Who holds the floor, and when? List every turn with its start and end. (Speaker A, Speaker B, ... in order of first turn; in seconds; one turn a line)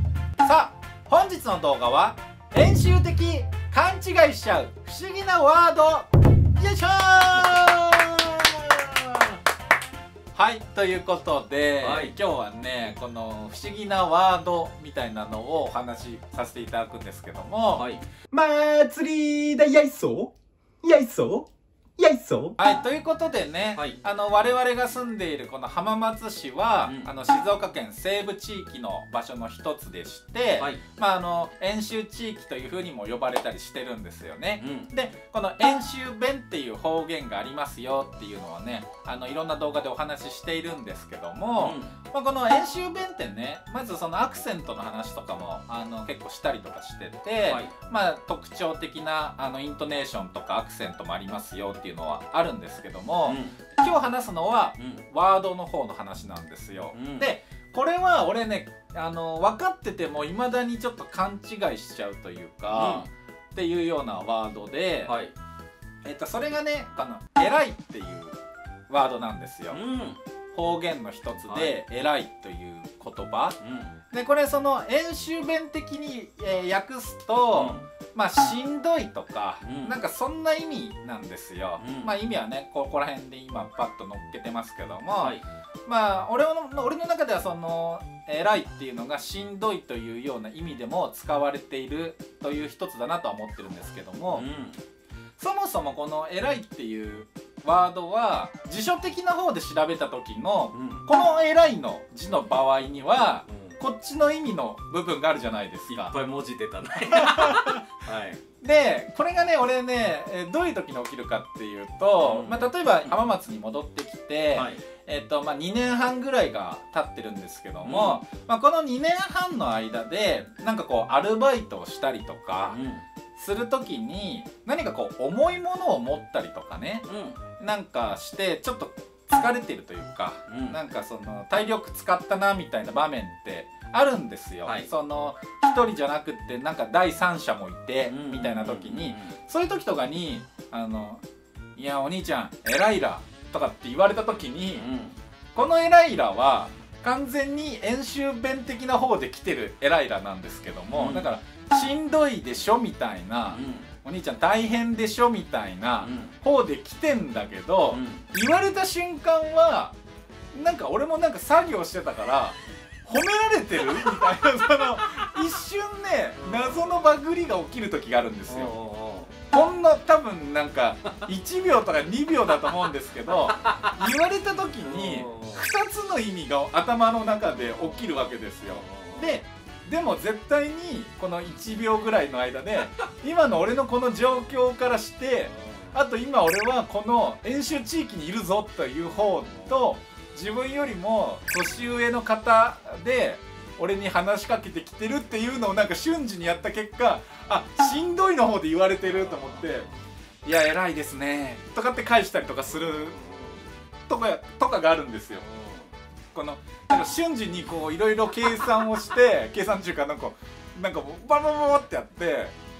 Speaker A: 0.4-9.2
Speaker A: 10.3-17.9
Speaker B: 11.8-12.1
Speaker B: 17.7-18.0
Speaker C: 18.3-22.5
Speaker A: 22.6-65.2
Speaker B: 34.6-34.9
Speaker B: 41.5-42.0
Speaker B: 47.5-47.7
Speaker B: 53.2-53.5
Speaker B: 56.9-57.3
Speaker B: 62.7-63.1
Speaker B: 65.1-65.3
Speaker A: 66.0-68.4
Speaker A: 68.9-69.8
Speaker B: 69.7-70.2
Speaker A: 70.5-73.6
Speaker B: 71.5-71.8
Speaker B: 73.6-74.0
Speaker A: 74.1-94.5
Speaker B: 77.5-77.9
Speaker B: 79.6-80.0
Speaker B: 81.8-82.1
Speaker B: 85.2-85.4
Speaker B: 94.3-94.8
Speaker A: 95.4-106.2
Speaker B: 100.7-101.1
Speaker B: 105.9-108.4
Speaker A: 107.1-107.8
Speaker A: 108.6-122.8
Speaker B: 112.2-113.1
Speaker B: 114.5-114.8
Speaker B: 117.8-118.2
Speaker B: 122.7-123.1
Speaker A: 123.3-127.1
Speaker B: 127.1-127.4
Speaker A: 127.6-141.2
Speaker B: 130.5-130.8
Speaker B: 134.6-134.9
Speaker B: 138.0-139.3
Speaker A: 141.8-144.8
Speaker B: 144.7-145.2
Speaker A: 145.6-160.0
Speaker B: 150.9-151.3
Speaker B: 153.5-153.9
Speaker B: 156.0-156.3
Speaker B: 157.9-158.2
Speaker A: 160.5-168.8
Speaker B: 166.4-167.2
Speaker B: 168.5-169.3
Speaker A: 169.5-199.9
Speaker B: 173.3-174.1
Speaker B: 174.8-175.7
Speaker B: 177.7-179.4
Speaker B: 185.5-186.0
Speaker B: 189.1-189.9
Speaker B: 199.0-199.9
Speaker A: 200.4-203.5
Speaker A: 204.1-205.4
Speaker B: 205.4-205.9
Speaker A: 206.3-212.6